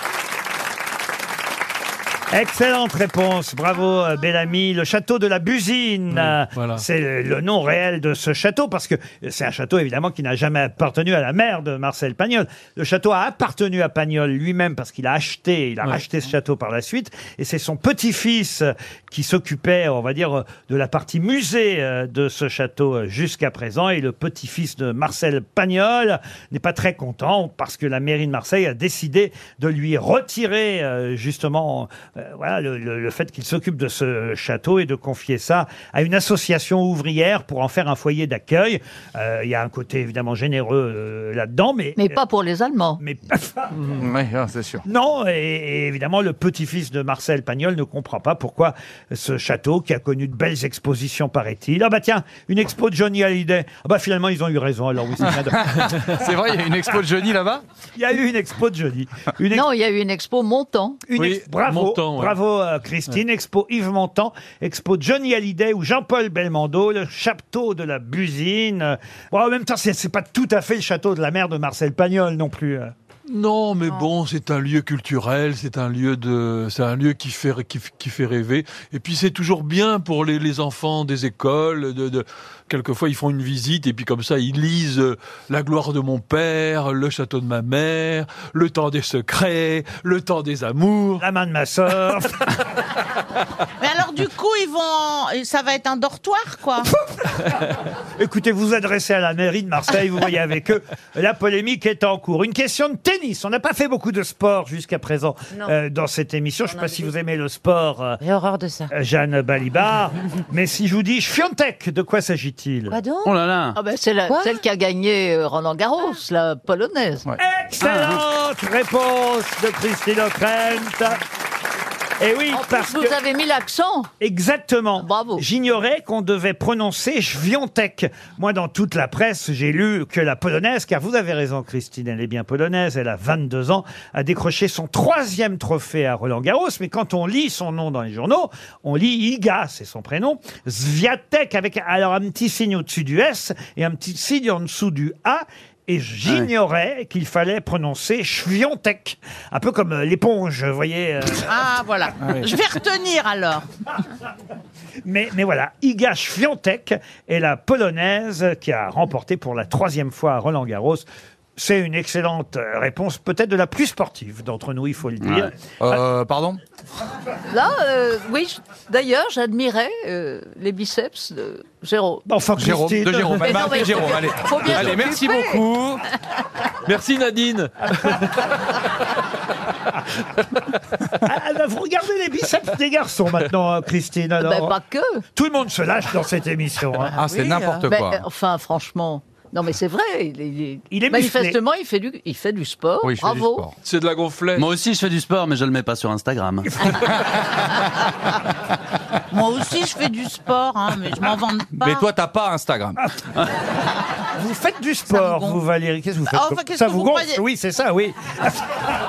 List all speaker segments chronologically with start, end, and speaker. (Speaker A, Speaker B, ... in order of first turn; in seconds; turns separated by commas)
Speaker A: 2.3-42.2, Speaker B: 6.1-6.8, Speaker C: 42.0-43.0, Speaker A: 43.0-44.0, Speaker D: 43.9-44.8, Speaker A: 44.8-55.9, Speaker D: 55.5-57.6, Speaker A: 58.0-59.7, Speaker C: 59.5-61.0, Speaker A: 61.1-72.9, Speaker B: 61.1-62.3, Speaker B: 73.3-91.2, Speaker A: 91.2-92.6, Speaker E: 93.8-96.9, Speaker A: 97.1-97.5, Speaker A: 98.2-108.2, Speaker F: 106.7-107.0, Speaker F: 108.2-108.9, Speaker A: 108.9-113.0, Speaker F: 112.9-113.4, Speaker G: 113.2-113.8, Speaker C: 113.8-117.3, Speaker F: 114.3-114.6, Speaker A: 117.4-121.2, Speaker G: 117.8-118.2, Speaker A: 122.2-123.1, Speaker C: 122.5-124.1, Speaker A: 124.2-151.6, Speaker C: 125.0-125.4, Speaker E: 151.4-153.7, Speaker D: 152.2-152.5, Speaker A: 155.0-161.0, Speaker A: 161.6-165.5, Speaker G: 165.2-165.5, Speaker D: 165.8-166.6, Speaker C: 167.5-172.2, Speaker A: 172.2-174.1, Speaker D: 172.6-176.0, Speaker C: 173.4-175.6, Speaker B: 176.8-178.5, Speaker A: 181.2-184.8, Speaker C: 184.4-185.2, Speaker A: 185.3-187.1, Speaker D: 187.1-188.2, Speaker E: 187.3-187.8, Speaker C: 187.7-193.6, Speaker A: 190.9-191.6, Speaker D: 193.0-193.7, Speaker B: 193.8-194.7, Speaker G: 194.5-197.0, Speaker E: 199.3-202.1, Speaker D: 201.8-203.1, Speaker A: 204.3-208.8, Speaker E: 205.1-205.6, Speaker E: 206.3-207.4